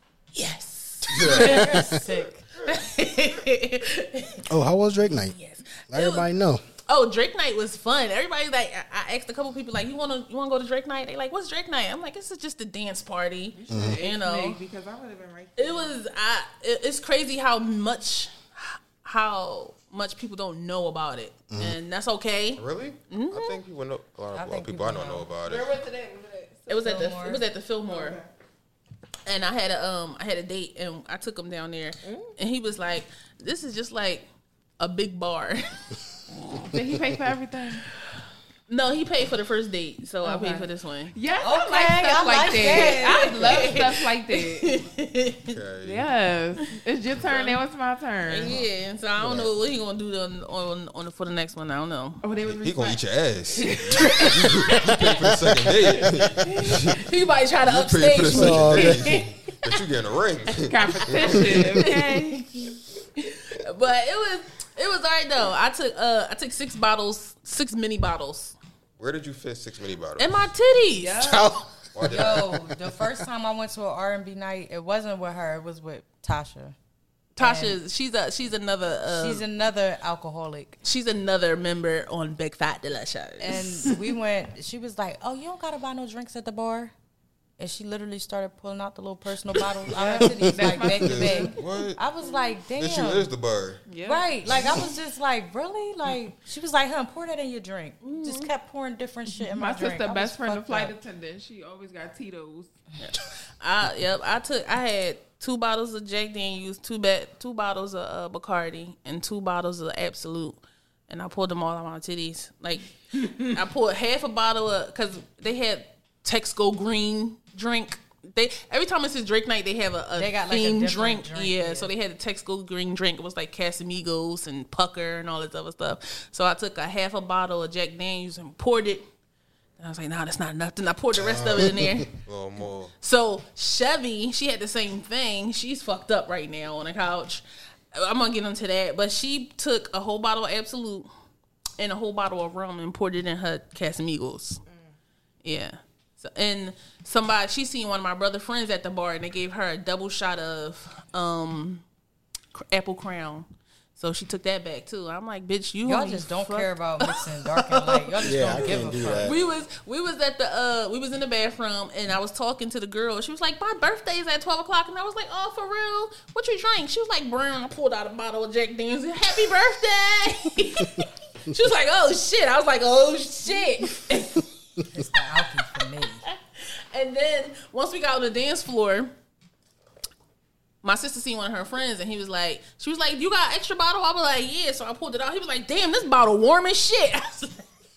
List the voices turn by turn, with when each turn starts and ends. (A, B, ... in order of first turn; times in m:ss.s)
0:00.3-0:01.9 A
0:01.1-0:02.0 B
0:01.1-0:01.7 C
0:01.2-0:02.4 D
0:02.6-0:04.5 A
0:04.5-0:05.4 B
0:05.2-0:06.3 A
0:05.9-0:06.6 B
0:06.9-0:14.6 A
0:13.6-0:16.0 E
0:13.7-0:14.0 B
0:15.6-0:23.6 A
0:21.5-0:21.8 B
0:22.6-0:25.7 C
0:24.3-0:25.3 D
0:25.4-0:27.2 E
0:26.7-0:28.2 A
0:26.8-0:27.4 D
0:27.8-0:28.3 E
0:29.3-0:34.3 A
0:32.0-0:32.4 E
0:34.8-0:35.8 A
0:36.7-0:37.8 E
0:38.7-0:41.2 A
0:40.2-0:44.8 E
0:41.4-0:43.8 D
0:42.4-0:45.6 A
0:45.5-0:46.1 C
0:45.8-0:48.6 E
0:47.2-0:47.5 C
0:47.3-0:47.6 A
0:48.3-0:52.2 A
0:49.2-0:49.5 C
0:52.2-0:53.0 E
0:52.5-0:57.1 C
0:53.6-0:54.2 E
0:53.7-0:55.0 A
0:54.9-0:55.6 B
0:56.4-0:59.8 A
0:57.6-1:01.6 C
0:58.3-0:59.1 B
1:00.7-1:02.5 E
1:01.0-1:08.6 A
1:09.0-1:10.4 C
1:10.2-1:11.5 A
1:11.0-1:11.5 E
1:11.2-1:12.5 B
1:11.9-1:12.6 C
1:12.0-1:16.8 D
1:17.4-1:19.4 A
1:17.4-1:17.8 D
1:19.1-1:20.8 D
1:20.8-1:24.0 A
1:23.4-1:26.9 D
1:27.6-1:33.3 D
1:29.9-1:31.6 E
1:30.9-1:32.0 C
1:32.7-1:33.8 C
1:33.9-1:34.4 E
1:34.0-1:41.0 D
1:34.5-1:34.8 C
1:38.0-1:38.5 A
1:39.4-1:42.7 E
1:43.0-2:09.1 A
2:00.2-2:01.9 D
2:09.8-2:12.2 A
2:11.4-2:11.9 B
2:12.2-2:12.9 C
2:13.0-2:17.4 A
2:17.9-2:21.1 A
2:21.8-2:24.6 A
2:25.4-2:31.8 A
2:32.5-2:54.4 A
2:35.8-2:39.3 D
2:38.3-2:39.4 B
2:54.9-2:56.2 D
2:56.2-2:59.1 A
3:00.8-3:07.6 A